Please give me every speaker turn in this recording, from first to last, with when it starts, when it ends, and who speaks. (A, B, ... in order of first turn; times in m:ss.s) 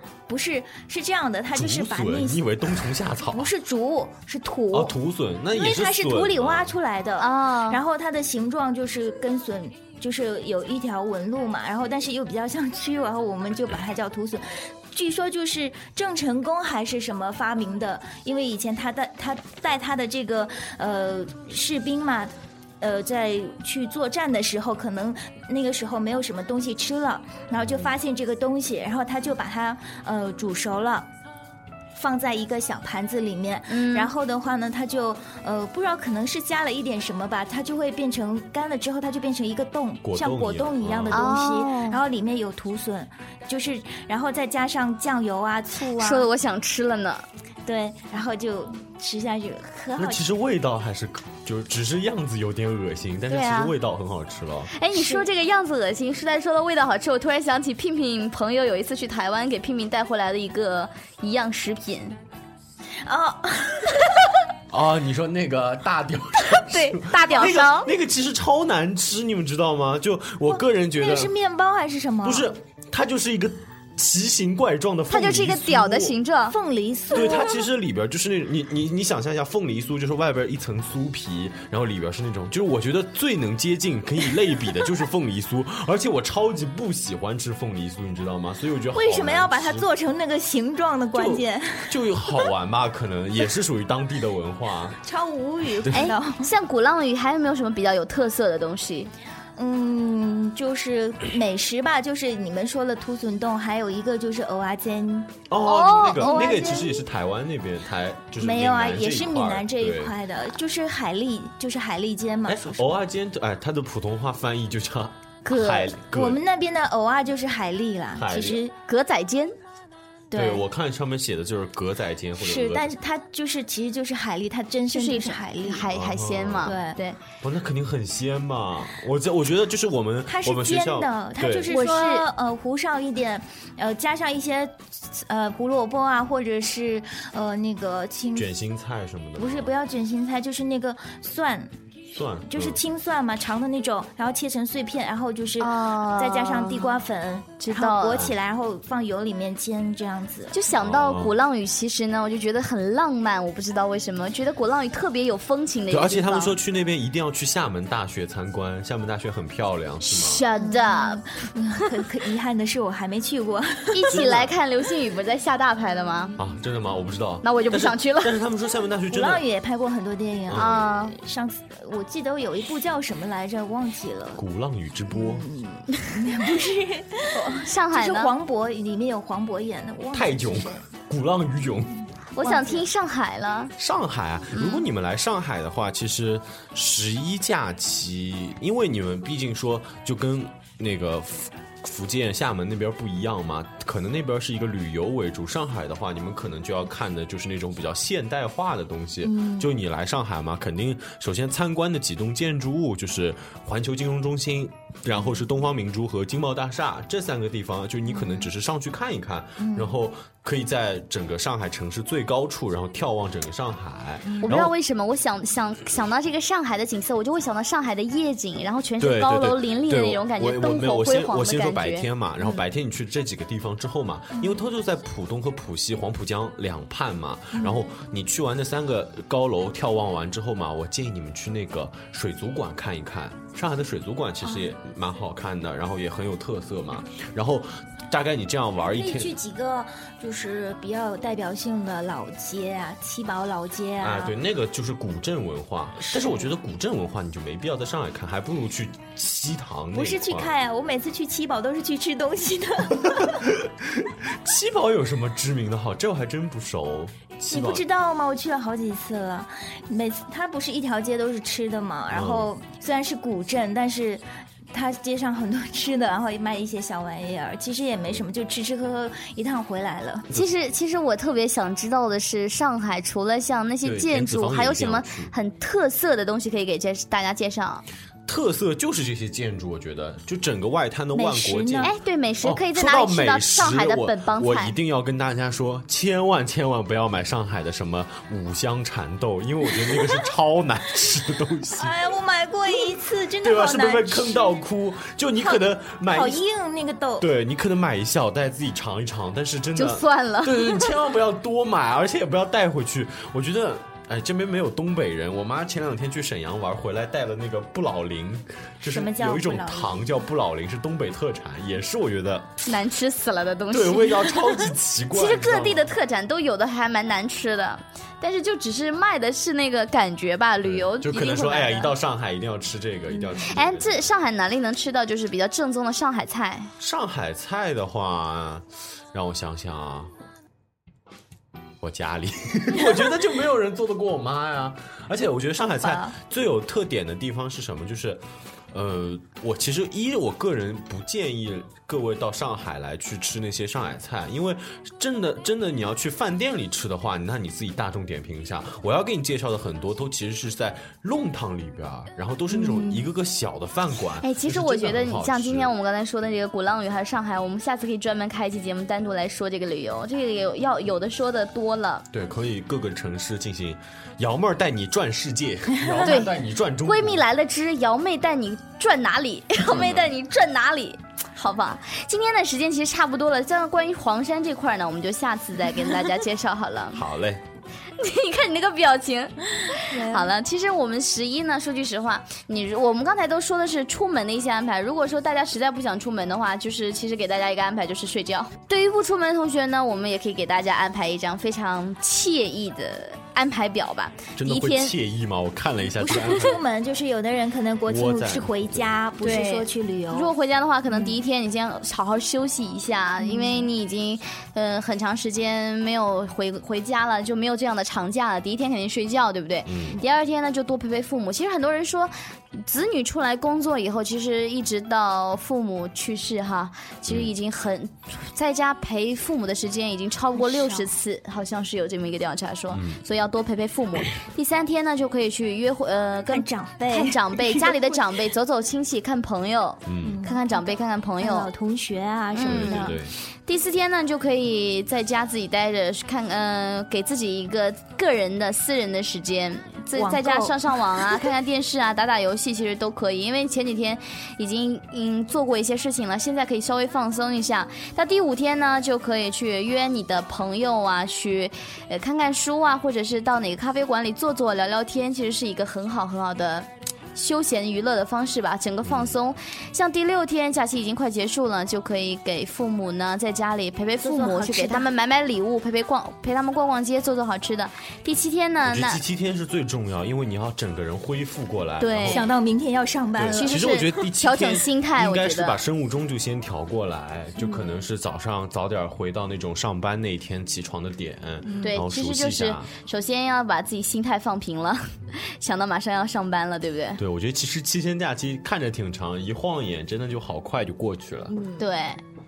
0:00.3-0:02.4 A
0:01.5-0:03.5 B
0:03.3-0:05.0 A
0:04.7-0:06.8 B
0:05.5-0:31.1 A
0:07.2-0:07.8 C
0:27.6-0:27.9 B
0:32.0-0:46.3 A
0:33.7-0:34.1 C
0:40.0-0:41.3 B
0:41.1-0:42.0 C
0:46.0-0:47.2 C
0:47.7-0:50.3 A
0:50.0-0:54.7 B
0:53.3-0:53.8 C
0:54.7-1:02.2 C
0:54.9-0:55.3 A
1:03.0-1:04.2 A
1:04.7-1:11.3 B
1:06.7-1:07.9 C
1:10.5-1:12.5 A
1:12.2-1:16.2 B
1:15.1-1:16.6 C
1:16.5-1:17.6 A
1:17.1-1:29.9 B
1:28.9-1:32.5 A
1:31.1-1:35.0 B
1:35.0-1:36.5 A
1:35.8-1:36.1 B
1:35.9-1:39.1 C
1:39.6-1:45.5 A
1:45.5-1:50.2 B
1:45.6-1:46.9 C
1:46.1-1:47.0 A
1:48.4-1:52.8 A
1:52.5-1:56.4 B
1:55.4-1:56.0 C
1:56.1-1:58.7 A
1:58.1-1:58.6 B
1:58.9-1:59.6 C
2:00.3-2:00.6 A
2:00.3-2:02.9 B
2:02.4-2:05.9 A
2:04.9-2:07.2 C
2:05.9-2:06.7 B
2:06.6-2:07.0 A
2:07.4-2:11.7 B
2:10.3-2:18.5 A
2:11.7-2:12.3 C
2:18.3-2:19.7 B
2:19.4-2:21.7 A
2:22.1-2:22.8 B
2:22.5-2:30.6 A
2:25.6-2:27.0 C
2:27.6-2:28.3 C
2:30.5-2:36.6 C
2:30.7-2:31.4 B
2:35.9-2:40.4 B
2:40.0-2:41.9 C
2:40.6-2:44.2 A
2:43.9-2:46.3 C
2:44.1-2:44.5 B
2:46.4-2:49.4 B
2:47.4-2:48.3 C
2:49.1-2:54.4 A
2:50.5-2:50.9 B
2:50.6-2:51.2 C
2:54.4-2:55.5 B
2:55.1-3:00.8 A
2:57.4-2:58.3 C
3:00.1-3:02.0 B
3:02.4-3:03.7 C
3:02.4-3:02.9 A
3:03.8-3:34.7 B
3:04.5-3:04.9 C
3:19.2-3:19.7 A
3:28.1-3:28.5 A
3:29.6-3:30.0 A
3:34.2-3:34.6 A
3:34.4-3:42.6 C
3:39.0-3:59.4 B
3:44.4-3:44.6 A
3:47.5-3:47.9 A
3:58.9-4:04.4 A
4:04.0-4:10.5 B
4:06.1-4:06.5 A
4:09.9-4:13.4 A
4:13.0-4:17.8 B
4:17.5-4:30.3 A
4:22.1-4:22.5 B
4:30.3-4:37.8 C
4:33.8-4:35.3 B
4:38.3-4:52.0 B
4:41.1-4:41.9 A
4:41.8-4:44.8 C
4:51.7-4:54.6 A
4:53.4-4:56.4 B
4:55.4-4:57.3 A
4:57.2-5:12.6 B
4:59.8-5:01.0 C
5:08.8-5:10.1 A
5:12.6-5:14.4 C
5:13.7-5:16.0 B
5:15.1-5:21.9 C
5:20.6-5:24.1 B
5:23.2-5:23.4 A
5:23.5-5:26.7 C
5:26.8-5:30.1 B
5:31.8-5:55.7 B
5:35.8-5:36.1 A
5:52.5-5:53.1 A
5:54.2-6:02.1 C
6:02.1-6:07.2 B
6:05.8-6:06.1 A
6:06.0-6:06.3 C
6:06.8-6:17.0 C
6:09.6-6:10.1 B
6:16.9-6:17.4 B
6:18.0-6:35.0 C
6:19.8-6:20.3 A
6:34.4-6:36.6 B
6:36.0-6:40.3 A
6:37.9-6:38.9 B
6:39.2-7:11.5 C
6:40.9-6:41.2 A
6:43.2-6:43.7 A
6:49.7-6:50.0 B
7:00.3-7:00.9 A
7:02.7-7:03.0 B
7:06.3-7:08.2 A
7:09.9-7:10.2 B
7:10.0-7:13.0 A
7:12.3-7:49.0 C
7:12.4-7:13.1 B
7:20.0-7:21.3 A
7:38.8-7:39.2 B
7:44.0-7:44.9 A
7:48.6-7:52.3 B
7:51.8-7:52.3 C
7:52.0-7:54.1 A
7:53.2-8:02.7 B
7:53.3-7:55.6 C
7:57.4-7:57.8 A
8:01.4-8:01.8 A
8:01.6-8:07.0 C
8:07.0-8:11.4 B
8:11.3-8:11.7 A
8:11.6-8:12.0 C